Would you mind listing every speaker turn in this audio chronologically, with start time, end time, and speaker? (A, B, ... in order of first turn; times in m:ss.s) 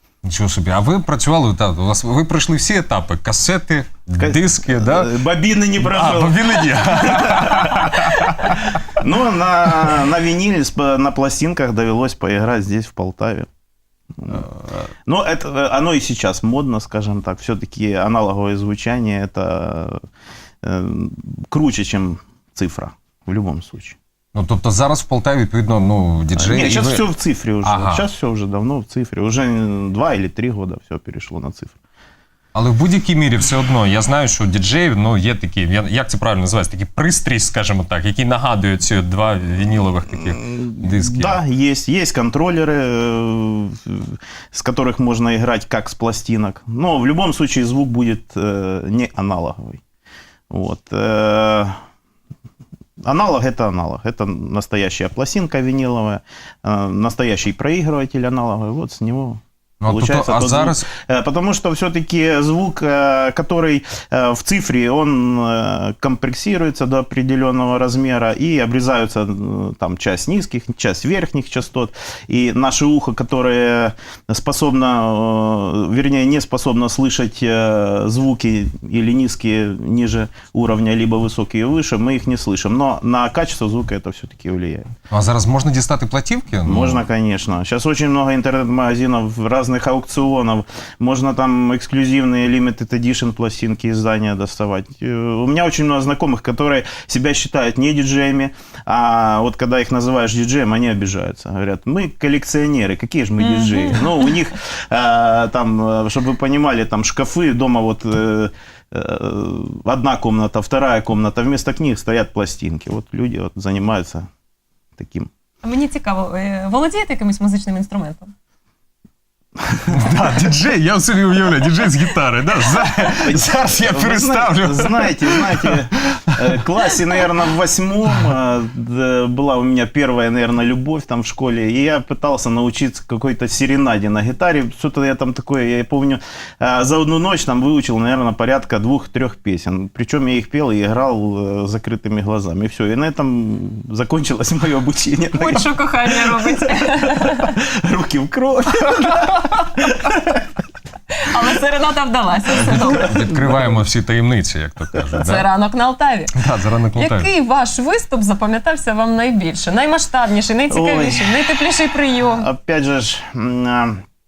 0:00.2-0:05.1 A
0:04.2-0:13.5 B
0:05.8-0:08.4 A
0:14.4-0:14.8 A
0:15.1-0:20.0 B
0:20.6-0:24.0 B
0:24.3-0:27.1 A
0:26.4-0:31.8 B
0:27.6-0:28.0 A
0:32.5-0:41.4 A
0:40.2-0:49.8 B
0:50.5-0:51.8 B
0:53.0-1:24.9 B
0:59.8-1:00.9 A
1:25.1-1:27.0 A
1:26.6-1:54.3 B
1:43.4-1:44.3 C
1:55.0-1:55.3 B
1:55.6-1:58.3 C
1:59.9-2:06.4 A
2:03.2-2:26.7 B
2:25.4-2:27.6 C
2:27.2-2:30.5 B
2:31.2-2:33.2 C
2:32.6-2:35.4 A
2:32.7-2:33.7 B
2:35.2-2:36.4 C
2:36.4-2:37.3 A
2:37.0-2:42.5 C
2:40.7-2:44.0 B